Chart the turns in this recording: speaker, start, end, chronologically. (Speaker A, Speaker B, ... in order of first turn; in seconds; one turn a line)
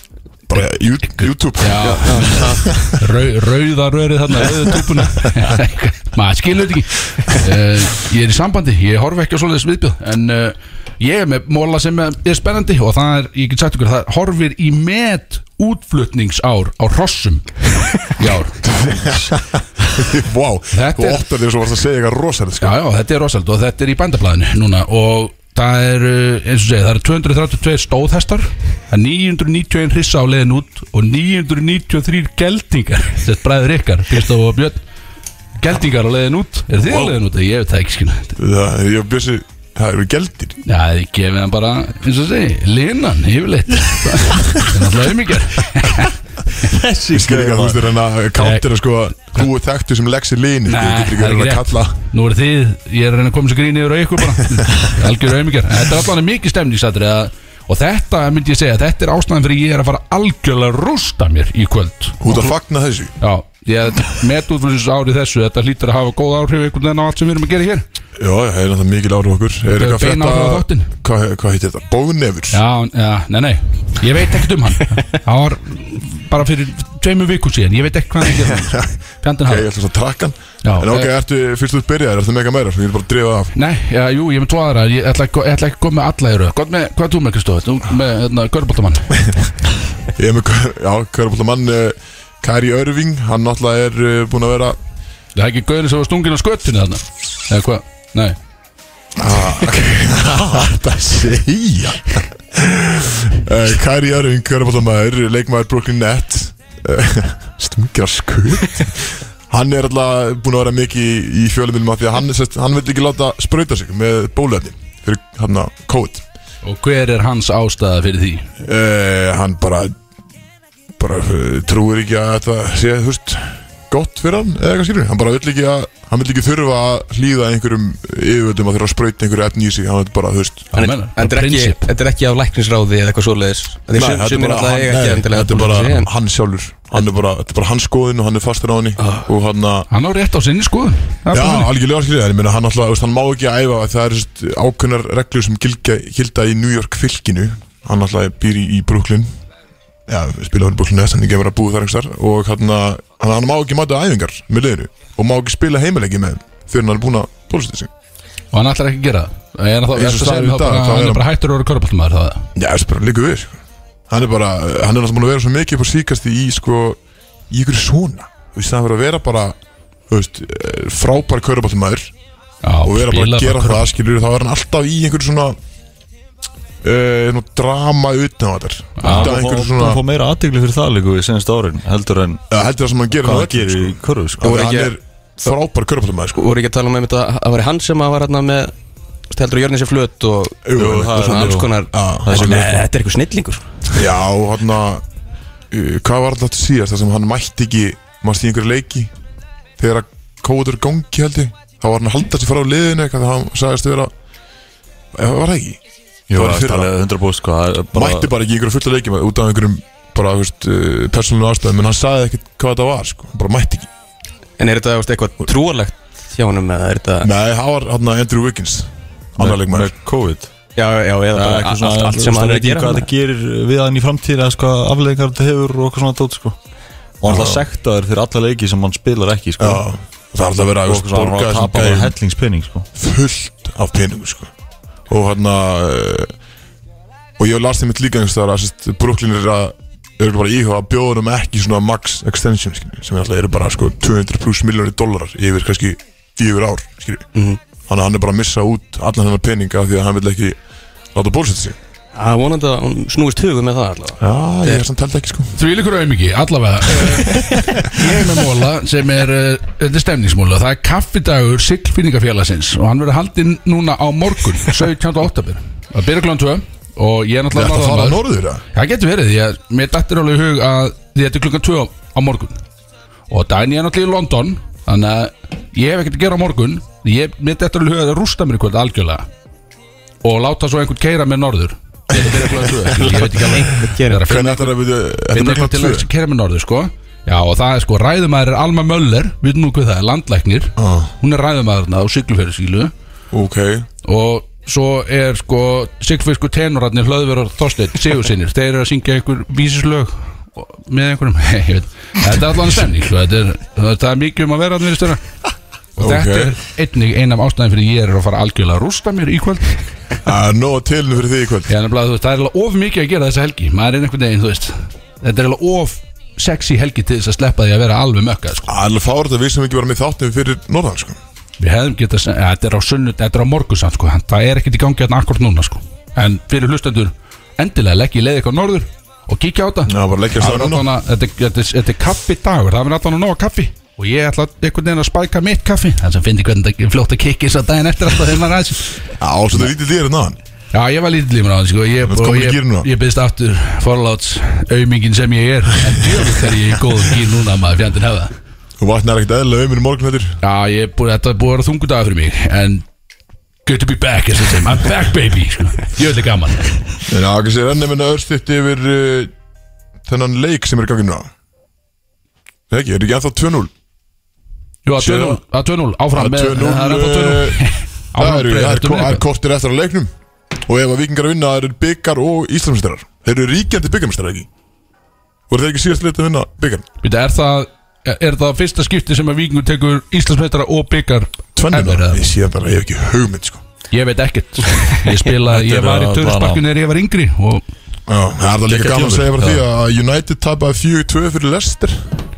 Speaker A: 0.5-3.0
Speaker B: 1.6-18.6
Speaker C: 1.8-2.7
Speaker A: 18.6-22.8
Speaker B: 20.7-21.2
Speaker B: 22.6-34.8
Speaker B: 35.6-38.4
Speaker A: 36.9-37.1
Speaker A: 38.4-40.6
Speaker B: 40.6-46.2
Speaker D: 46.6-47.8
Speaker A: 47.1-52.0
Speaker B: 48.4-48.6
Speaker B: 50.7-62.5
Speaker A: 62.2-63.1
Speaker B: 63.2-67.8
Speaker A: 68.2-72.6
Speaker B: 69.7-70.9
Speaker B: 72.5-79.7
Speaker A: 78.3-83.5
Speaker B: 80.6-81.1
Speaker B: 83.5-89.2
Speaker A: 90.1-94.8
Speaker B: 95.3-98.4
Speaker A: 99.2-116.2
Speaker B: 116.6-118.5
Speaker A: 118.6-119.9
Speaker A: 121.0-130.8
Speaker B: 130.7-131.9
Speaker C: 130.8-136.1
Speaker A: 133.9-139.9
Speaker C: 139.0-139.3
Speaker B: 139.9-141.7
Speaker A: 141.3-149.3
Speaker A: 150.1-157.9
Speaker B: 158.5-162.5
Speaker A: 159.9-161.3
Speaker A: 162.6-167.0
Speaker A: 167.5-169.6
Speaker A: 170.1-172.1
Speaker B: 172.6-173.9
Speaker A: 172.8-175.6
Speaker A: 176.8-180.0
Speaker B: 179.0-179.4
Speaker D: 179.0-182.4
Speaker A: 182.5-186.4
Speaker D: 183.2-184.4
Speaker C: 184.4-184.9
Speaker C: 186.3-188.7
Speaker C: 189.3-193.9
Speaker A: 190.6-192.8
Speaker D: 190.8-191.7
Speaker D: 192.2-192.8
Speaker A: 193.9-195.0
Speaker A: 195.7-199.1
Speaker A: 199.8-204.1
Speaker A: 205.1-205.8
Speaker D: 206.3-208.3
Speaker A: 206.3-206.9
Speaker A: 207.9-213.9
Speaker C: 214.6-217.3
Speaker A: 217.2-219.9
Speaker D: 219.4-220.5
Speaker C: 220.8-223.1
Speaker D: 221.3-226.6
Speaker D: 227.2-229.8
Speaker A: 227.3-227.6
Speaker A: 229.6-232.2
Speaker D: 230.9-232.9
Speaker A: 232.9-234.5
Speaker A: 235.1-236.3
Speaker A: 237.4-247.3
Speaker C: 247.3-247.6
Speaker A: 247.9-250.6
Speaker A: 251.1-251.8
Speaker C: 252.1-254.8
Speaker A: 254.2-255.6
Speaker B: 255.6-268.2
Speaker A: 257.1-257.9
Speaker A: 267.5-268.6
Speaker B: 268.7-272.6
Speaker B: 273.3-279.3
Speaker B: 280.2-284.8
Speaker A: 282.2-282.7
Speaker C: 283.1-284.2
Speaker A: 284.2-286.1
Speaker B: 285.3-292.9
Speaker A: 290.8-291.1
Speaker A: 293.3-293.9
Speaker B: 294.0-305.2
Speaker B: 306.0-309.8
Speaker A: 306.0-306.6
Speaker A: 310.2-311.7
Speaker B: 311.7-318.7
Speaker A: 318.6-321.2
Speaker B: 321.6-339.0
Speaker A: 329.9-330.9
Speaker A: 339.2-340.4
Speaker B: 340.7-348.3
Speaker A: 342.0-342.9
Speaker A: 348.8-350.4
Speaker B: 350.4-352.9
Speaker B: 353.6-356.8
Speaker A: 357.1-359.3
Speaker A: 360.1-361.3
Speaker A: 362.7-363.7
Speaker B: 364.9-369.2
Speaker A: 365.0-365.4
Speaker A: 366.1-367.6
Speaker A: 368.1-370.1
Speaker A: 370.6-374.5
Speaker A: 375.5-376.9
Speaker B: 377.0-382.2
Speaker A: 381.6-383.6
Speaker B: 383.9-387.6
Speaker D: 385.3-386.6
Speaker A: 388.1-392.1
Speaker D: 388.7-389.6